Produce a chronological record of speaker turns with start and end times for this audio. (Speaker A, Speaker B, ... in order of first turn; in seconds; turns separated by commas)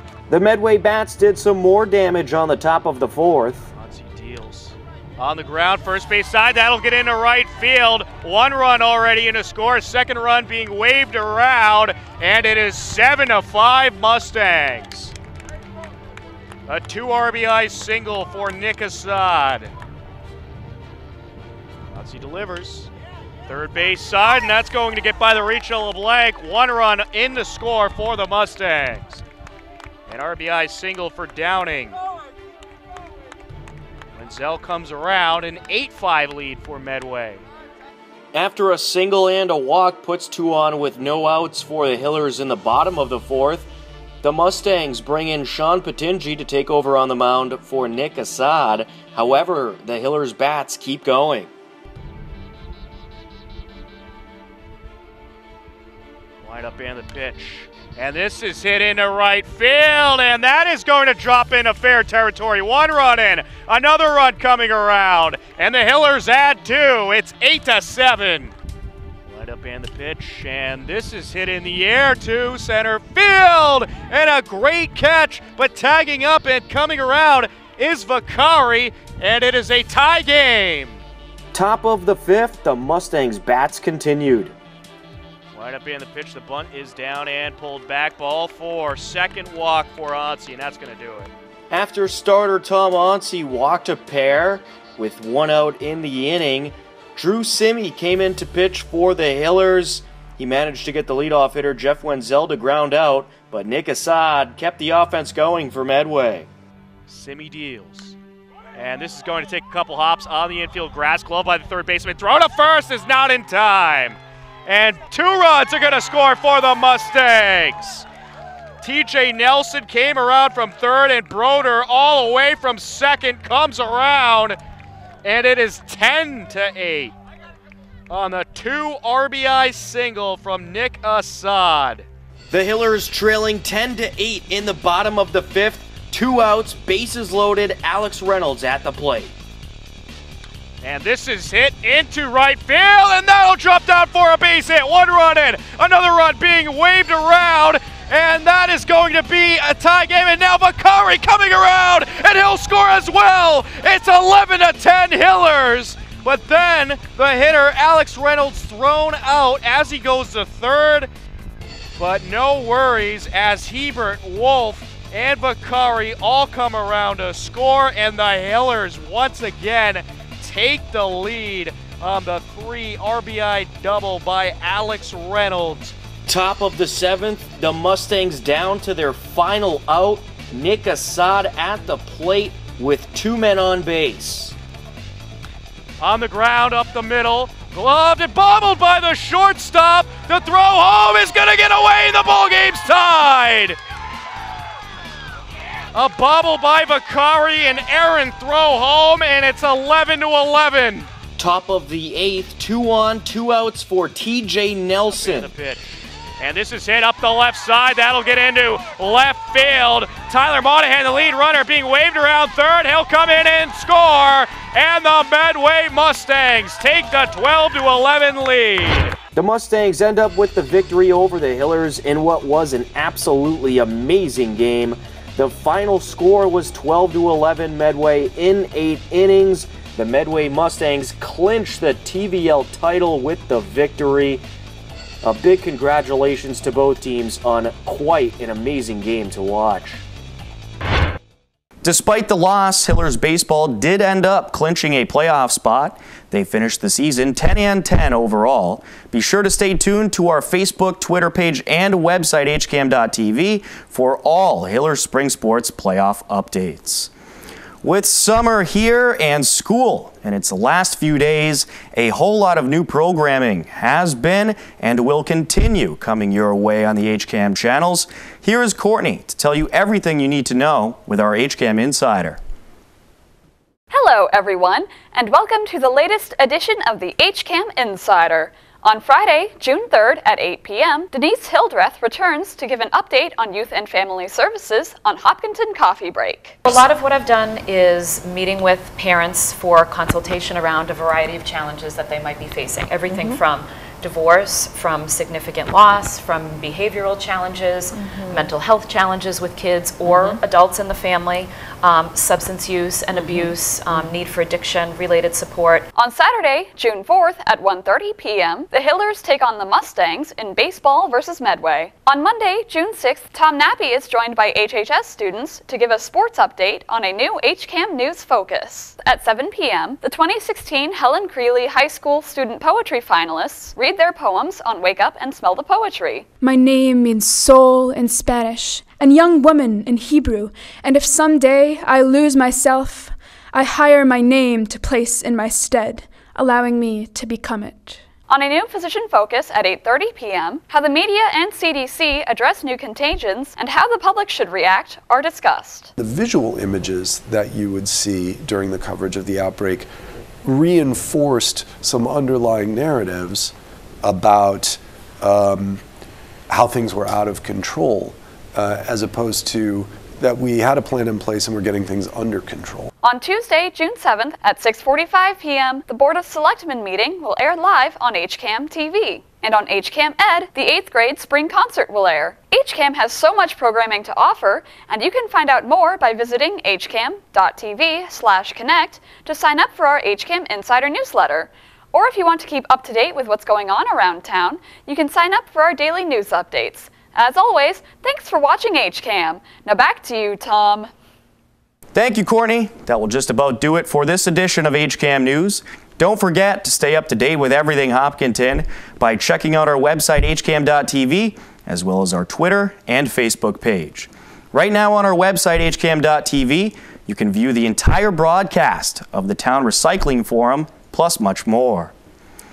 Speaker A: 0.3-3.7, Speaker B: 3.7-15.1, Speaker B: 16.7-19.7, Speaker B: 21.9-22.9, Speaker B: 23.5-29.2, Speaker B: 30.1-32.0, Speaker B: 34.1-37.4, Speaker A: 38.3-43.7, Speaker A: 44.2-51.5, Speaker B: 56.4-68.5, Speaker B: 69.3-81.0, Speaker A: 81.5-84.5, Speaker B: 85.5-91.3, Speaker A: 91.7-106.5, Speaker B: 107.1-108.2, Speaker B: 108.8-118.1, Speaker B: 118.8-124.6, Speaker B: 125.2-127.1, Speaker B: 128.1-132.1, Speaker A: 132.5-139.3, Speaker B: 140.8-161.1, Speaker B: 162.0-175.9, Speaker A: 176.3-184.6, Speaker B: 186.0-193.8, Speaker B: 195.9-201.1, Speaker A: 201.4-205.5, Speaker B: 205.1-219.2, Speaker A: 219.3-234.4, Speaker A: 235.2-240.0, Speaker A: 241.8-257.1, Speaker A: 257.8-272.4, Speaker C: 273.9-286.6, Speaker D: 286.6-305.9, Speaker C: 305.9-326.3, Speaker E: 326.4-338.0, Speaker C: 338.3-345.9, Speaker F: 346.0-349.9, Speaker F: 350.4-353.5, Speaker F: 354.0-355.8, Speaker F: 356.5-362.9, Speaker C: 363.0-390.9, Speaker A: 391.9-411.9